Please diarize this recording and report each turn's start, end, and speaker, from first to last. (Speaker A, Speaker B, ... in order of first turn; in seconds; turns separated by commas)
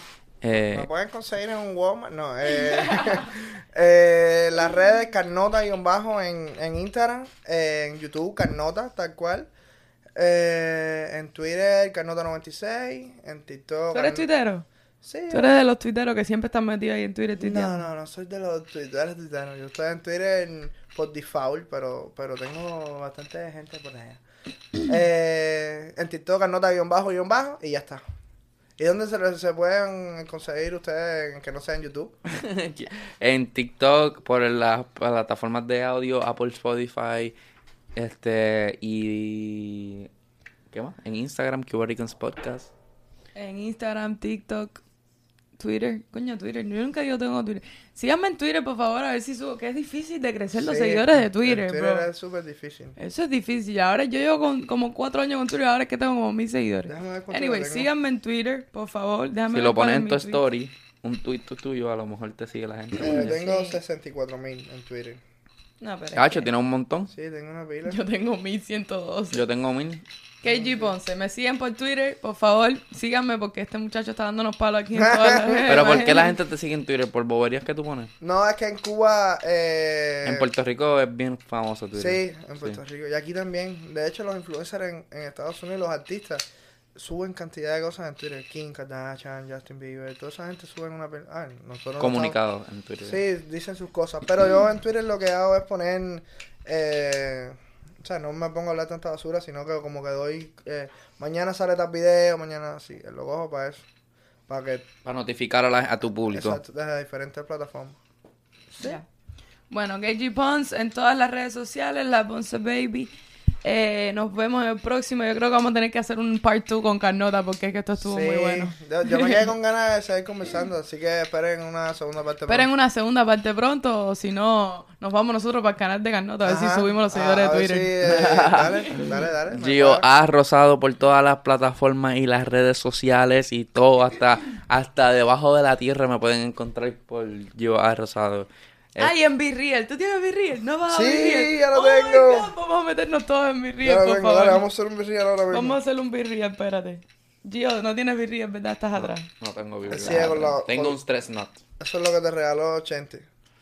Speaker A: 0.4-0.9, Speaker B: 0.7-9.5, Speaker B: 10.2-14.2, Speaker C: 13.9-14.7, Speaker B: 15.0-15.5, Speaker C: 15.3-17.8, Speaker B: 17.4-24.2, Speaker B: 24.9-28.0, Speaker B: 28.8-32.1, Speaker A: 32.3-37.4, Speaker A: 38.0-40.1, Speaker A: 40.7-42.7, Speaker C: 43.4-44.8, Speaker C: 45.6-52.1, Speaker B: 50.5-53.0, Speaker C: 53.0-60.4, Speaker B: 56.9-57.9, Speaker A: 59.5-63.4, Speaker B: 63.0-65.2, Speaker C: 63.0-63.8, Speaker C: 65.8-66.5, Speaker A: 66.2-67.1, Speaker B: 67.1-68.0, Speaker C: 67.8-69.4, Speaker A: 69.3-70.0, Speaker C: 70.4-76.3, Speaker B: 70.5-70.9, Speaker B: 75.0-75.9, Speaker A: 75.7-78.1, Speaker B: 78.2-80.5, Speaker A: 80.2-82.8, Speaker B: 82.0-92.4, Speaker A: 92.0-93.2, Speaker B: 93.0-103.9, Speaker B: 104.5-104.9, Speaker A: 105.0-106.6, Speaker B: 106.3-108.0, Speaker B: 108.7-109.0, Speaker C: 109.7-113.1, Speaker C: 113.6-119.5, Speaker B: 118.0-122.7, Speaker C: 122.5-127.9, Speaker B: 126.5-130.1, Speaker A: 128.1-139.1, Speaker C: 139.0-144.6, Speaker B: 140.9-142.5, Speaker B: 143.8-145.8, Speaker C: 145.5-149.3, Speaker A: 149.4-151.6, Speaker B: 149.9-151.0, Speaker B: 151.8-153.3